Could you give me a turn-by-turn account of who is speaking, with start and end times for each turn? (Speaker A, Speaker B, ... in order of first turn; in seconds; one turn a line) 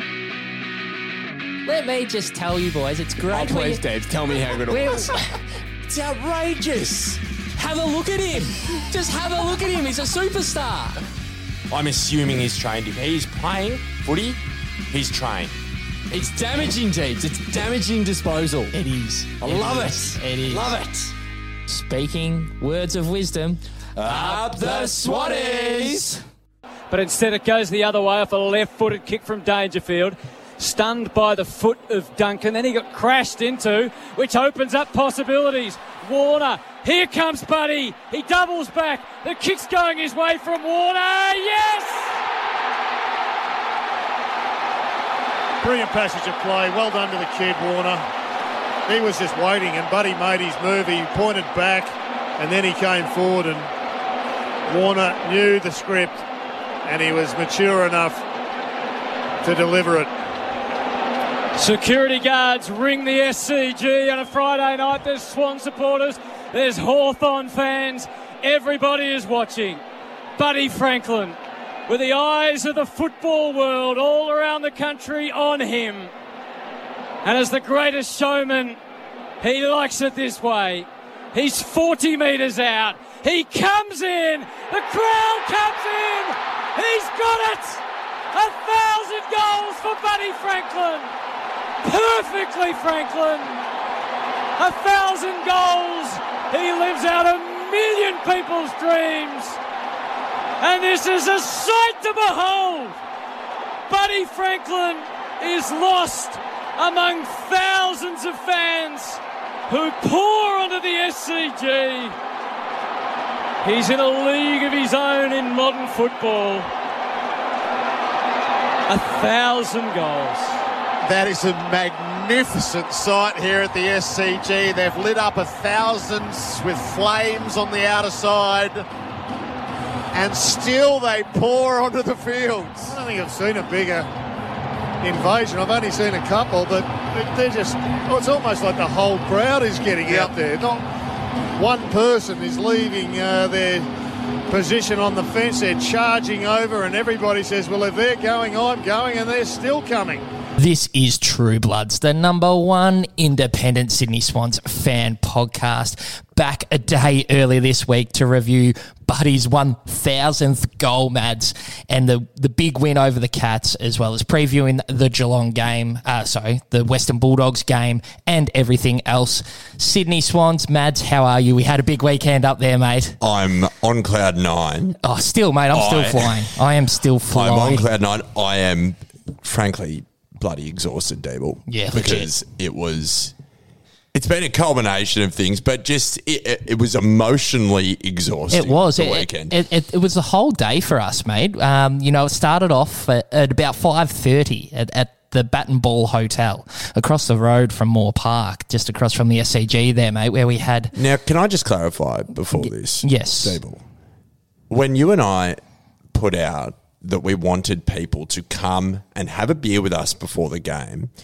Speaker A: 1.6-3.8
Speaker B: 3.3-5.0
Speaker A: 4.7-5.2
Speaker C: 5.9-7.2
Speaker A: 7.6-11.0
Speaker B: 8.0-8.2
Speaker C: 11.7-14.4
Speaker C: 14.9-15.6
Speaker B: 16.1-18.7
Speaker A: 18.7-20.7
Speaker B: 19.4-21.1
Speaker A: 21.7-23.6
Speaker B: 24.0-26.2
Speaker D: 26.9-42.1
Speaker E: 45.6-48.0
Speaker E: 48.9-53.7
Speaker E: 54.7-56.2
Speaker E: 56.9-58.2
Speaker E: 59.4-60.1
Speaker D: 61.6-69.8
Speaker D: 70.4-76.1
Speaker D: 77.2-78.8
Speaker D: 79.4-87.8
Speaker D: 88.3-91.1
Speaker D: 91.8-93.6
Speaker D: 94.6-99.6
Speaker D: 100.6-103.0
Speaker D: 103.9-112.2
Speaker D: 113.6-116.7
Speaker D: 118.9-120.5
Speaker E: 121.0-128.9
Speaker E: 130.1-134.1
Speaker E: 135.0-140.8
Speaker E: 141.6-143.9
Speaker E: 144.5-150.3
Speaker A: 150.6-173.2
Speaker C: 173.2-175.0
Speaker A: 175.0-177.9
Speaker C: 175.7-176.4
Speaker C: 177.3-183.3
Speaker A: 181.7-182.3
Speaker C: 184.1-189.6
Speaker A: 188.5-200.9
Speaker C: 200.9-203.8
Speaker A: 203.0-203.6
Speaker C: 204.7-205.6
Speaker C: 206.1-211.1